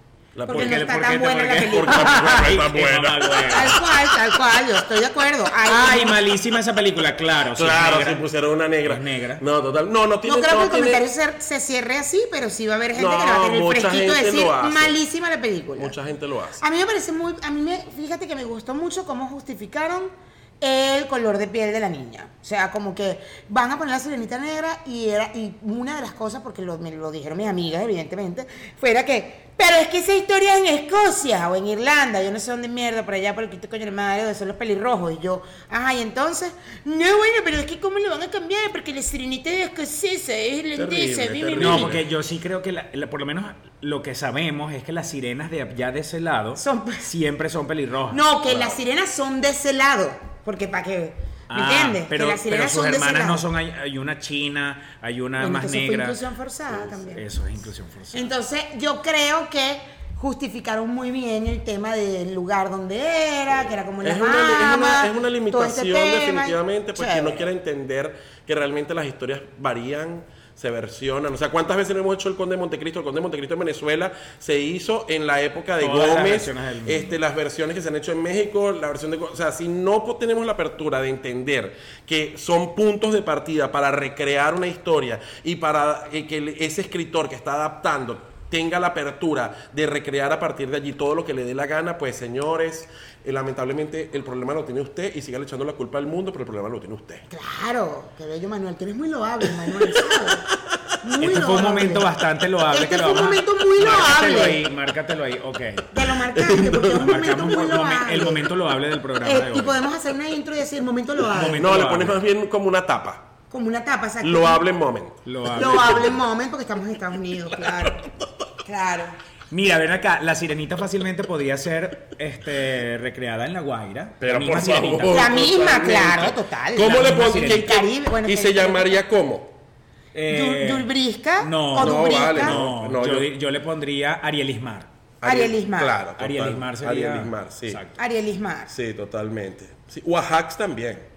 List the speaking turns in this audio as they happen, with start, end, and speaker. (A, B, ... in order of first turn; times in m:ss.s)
0:00.3-0:01.0 A
0:00.5-0:02.5 B
0:00.5-0:03.8 C
0:01.6-0:03.7 A
0:03.4-0:06.2 B
0:05.6-0:08.2 C
0:07.5-0:11.0 A
0:08.8-0:09.4 C
0:10.2-0:15.9 B
0:12.9-0:15.0 A
0:15.8-0:16.6 A
0:16.6-0:42.0 B
0:40.8-0:42.0 A
0:41.6-0:48.2 C
0:46.6-0:47.1 B
0:48.1-0:53.4 B
0:48.5-0:48.8 A
0:51.5-0:56.2 C
0:55.4-0:57.2 B
0:56.7-0:57.0 A
0:57.1-0:58.3 C
0:58.1-1:07.5 B
1:04.0-1:37.2 A
1:15.8-1:17.2 C
1:37.3-1:40.4 B
1:39.7-1:40.8 A
1:41.0-1:42.1 B
1:41.2-1:45.9 C
1:42.7-1:44.6 B
1:45.9-1:48.5 B
1:46.3-1:47.1 A
1:46.9-1:49.8 C
1:49.2-1:51.6 B
1:51.3-1:52.2 C
1:51.6-1:53.3 A
1:53.5-1:54.6 B
1:54.2-1:55.6 A
1:55.2-1:56.2 C
1:55.5-1:58.1 B
1:58.6-1:59.2 B
1:59.5-2:05.2 C
2:04.2-2:09.6 A
2:05.0-2:09.0 B
2:06.9-2:07.7 C
2:10.1-2:14.9 C
2:10.3-2:12.6 B
2:11.8-2:13.3 A
2:15.2-2:17.8 A
2:15.2-2:16.0 B
2:16.2-2:18.0 C
2:18.0-2:18.7 B
2:18.7-2:21.1 A